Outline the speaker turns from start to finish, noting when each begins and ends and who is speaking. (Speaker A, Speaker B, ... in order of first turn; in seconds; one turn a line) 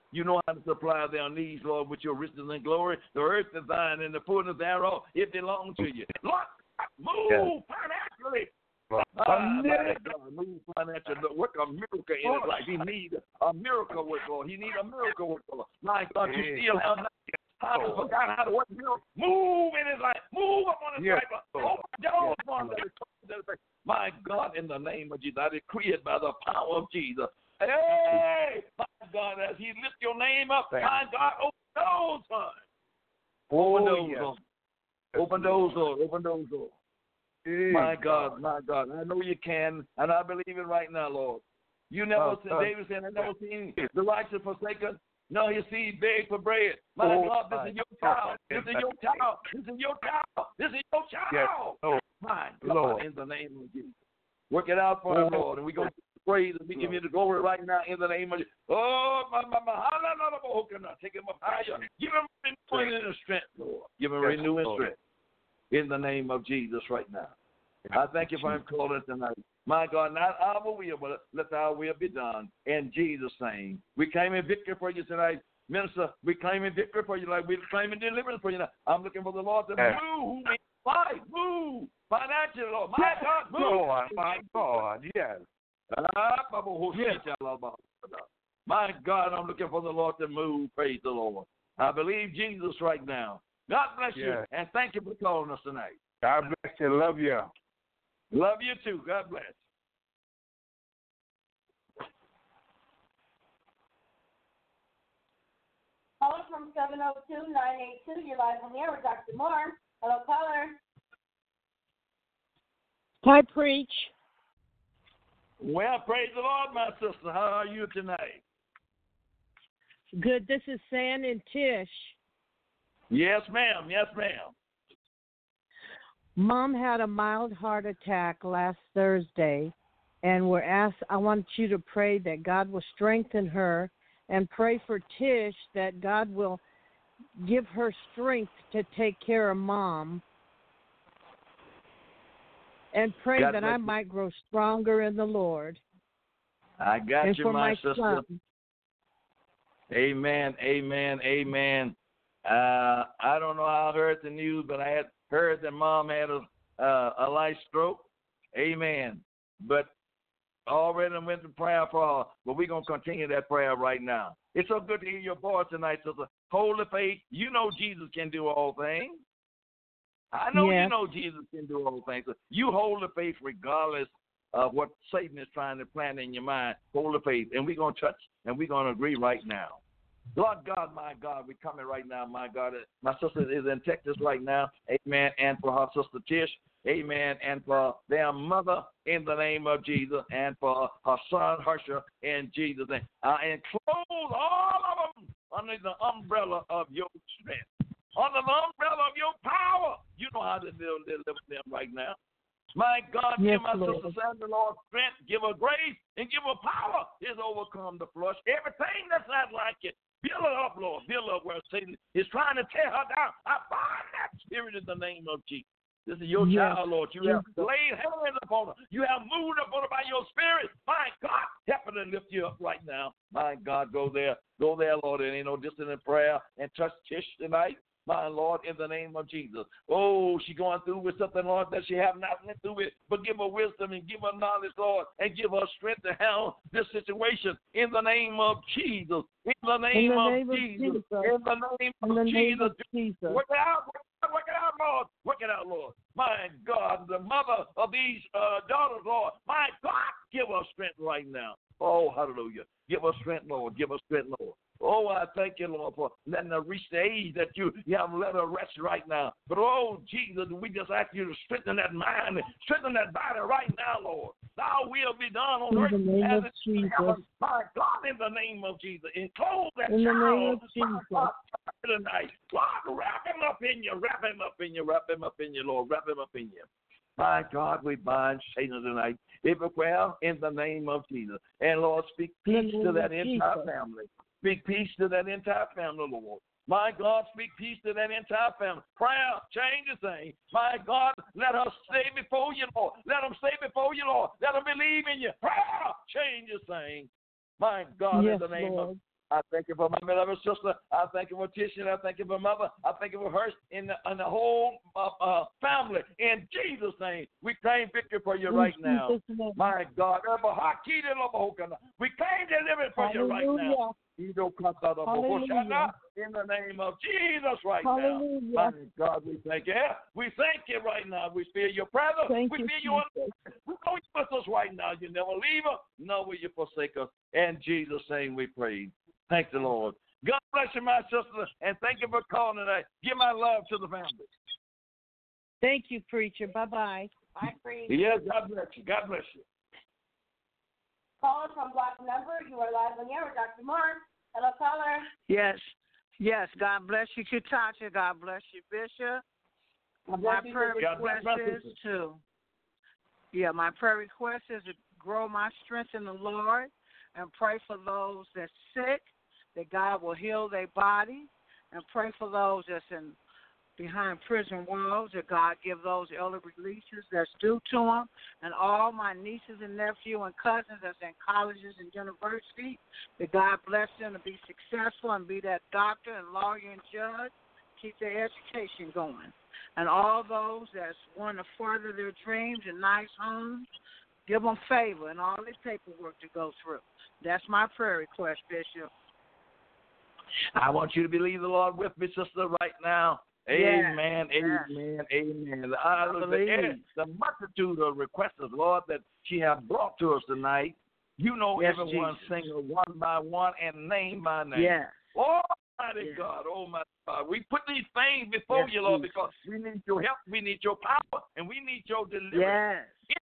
Speaker A: 0.1-8.5
Speaker B: 8.9-10.1
Speaker A: 9.1-32.6
Speaker B: 12.2-12.8
Speaker B: 16.2-16.7
Speaker B: 17.7-18.1
Speaker B: 21.0-22.8
Speaker B: 30.7-31.0
Speaker B: 33.5-34.3
Speaker A: 33.5-34.4
Speaker B: 35.1-35.8
Speaker A: 35.1-36.7
Speaker B: 37.5-38.4
Speaker A: 37.7-53.9
Speaker B: 42.1-43.9
Speaker B: 47.0-49.3
Speaker B: 51.3-52.0
Speaker B: 52.6-53.0
Speaker A: 54.5-65.0
Speaker B: 55.1-55.9
Speaker B: 61.5-61.9
Speaker B: 64.2-64.9
Speaker A: 65.7-67.3
Speaker B: 67.8-68.6
Speaker A: 67.9-84.6
Speaker B: 83.0-85.4
Speaker A: 85.9-96.0
Speaker B: 86.9-87.2
Speaker B: 94.1-94.4
Speaker B: 96.2-97.5
Speaker A: 98.3-99.6
Speaker C: 106.2-110.8
Speaker D: 113.2-114.1
Speaker A: 115.6-118.4
Speaker D: 120.2-122.1
Speaker A: 123.1-124.5
Speaker D: 126.3-136.6
Speaker D: 137.4-140.2
Speaker D: 142.9-145.8
Speaker A: 143.3-143.9
Speaker A: 146.8-148.2
Speaker D: 147.2-148.4
Speaker A: 149.9-151.9
Speaker A: 152.4-159.9
Speaker A: 160.7-169.2
Speaker A: 170.3-179.8
Speaker D: 170.5-170.9
Speaker A: 180.3-202.2
Speaker A: 202.7-276.7
Speaker D: 203.4-204.2
Speaker D: 216.3-217.7
Speaker D: 239.9-241.3
Speaker D: 242.0-243.4
Speaker D: 265.7-267.2
Speaker D: 269.9-271.3
Speaker A: 277.2-334.3
Speaker D: 282.4-283.7
Speaker D: 298.1-299.0
Speaker D: 308.5-309.6
Speaker D: 313.0-313.9
Speaker D: 315.0-315.9
Speaker D: 317.8-318.8
Speaker D: 322.3-323.4
Speaker D: 335.6-337.1
Speaker A: 337.9-339.4
Speaker C: 341.2-345.1
Speaker E: 345.3-345.6
Speaker E: 346.2-349.2
Speaker C: 350.1-351.1
Speaker E: 350.1-352.2
Speaker A: 350.8-351.7
Speaker E: 353.3-359.0
Speaker E: 359.5-363.2
Speaker E: 363.8-383.6
Speaker E: 384.3-388.9
Speaker A: 390.5-413.2
Speaker E: 393.5-394.8
Speaker E: 396.0-396.9
Speaker E: 401.6-402.5
Speaker E: 404.5-405.0
Speaker E: 406.0-406.3
Speaker E: 408.5-409.4
Speaker E: 412.3-413.0